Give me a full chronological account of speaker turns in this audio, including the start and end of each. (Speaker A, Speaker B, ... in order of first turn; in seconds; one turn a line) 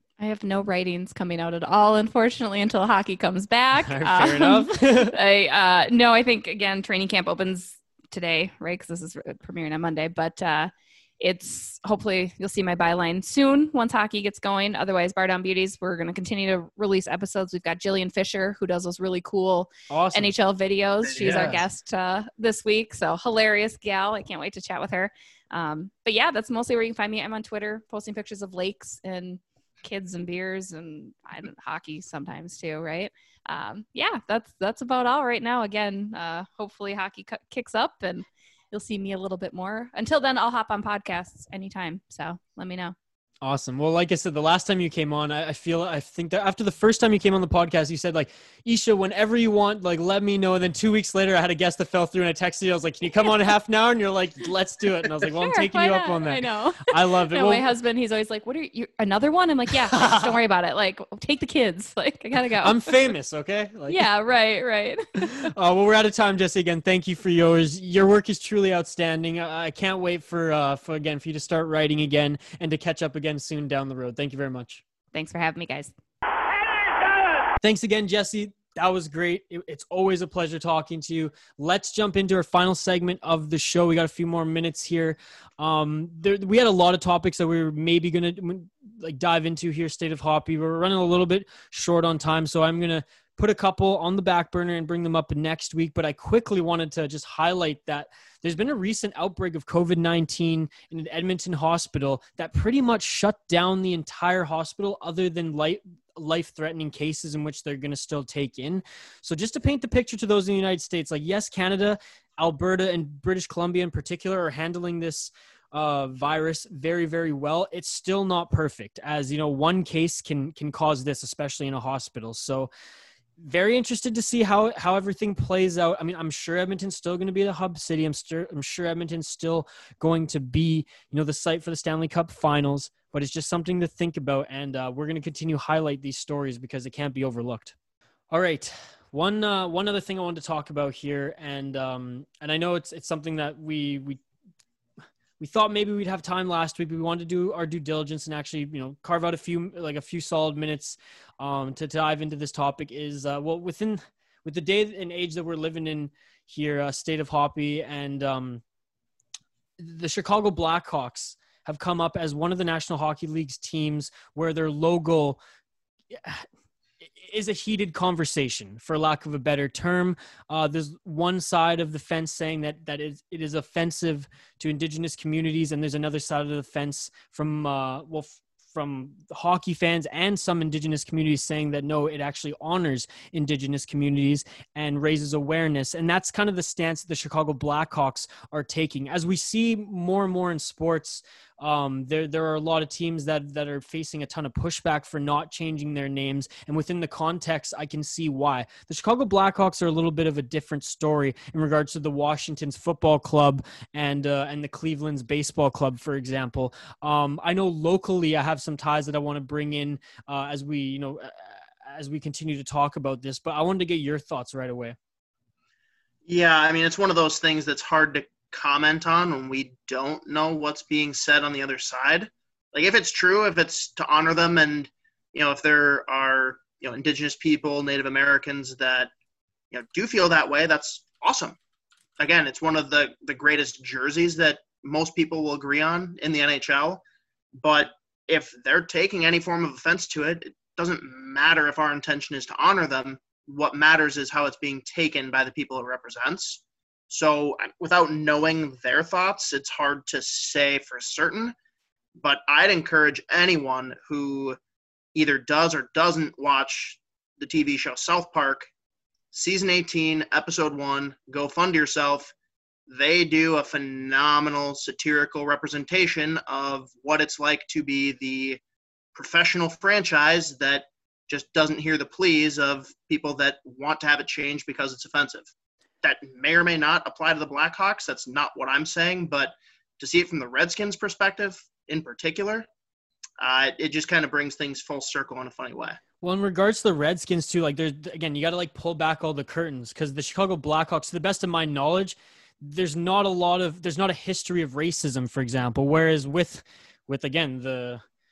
Speaker A: 0.2-43.0
Speaker B: 3.8-5.2
Speaker B: 19.9-20.3
Speaker C: 21.0-21.6
Speaker B: 21.2-21.6
Speaker B: 43.4-57.7
Speaker A: 55.2-63.0
Speaker B: 59.9-60.3
Speaker B: 62.6-64.1
Speaker A: 63.9-65.3
Speaker B: 65.2-74.8
Speaker A: 75.1-75.9
Speaker B: 77.6-122.7
Speaker B: 123.4-137.7
Speaker B: 138.3-144.2
Speaker B: 145.4-158.6
Speaker B: 159.8-165.4
Speaker B: 166.1-166.5
Speaker B: 167.0-215.0
Speaker C: 216.3-229.1
Speaker C: 229.7-231.6
Speaker C: 232.2-237.0
Speaker C: 237.6-251.6
Speaker C: 252.2-254.6
Speaker C: 255.2-258.7
Speaker C: 259.3-262.3
Speaker C: 262.9-268.6
Speaker C: 269.1-275.5
Speaker C: 276.0-282.7
Speaker C: 283.4-286.0
Speaker B: 286.2-298.0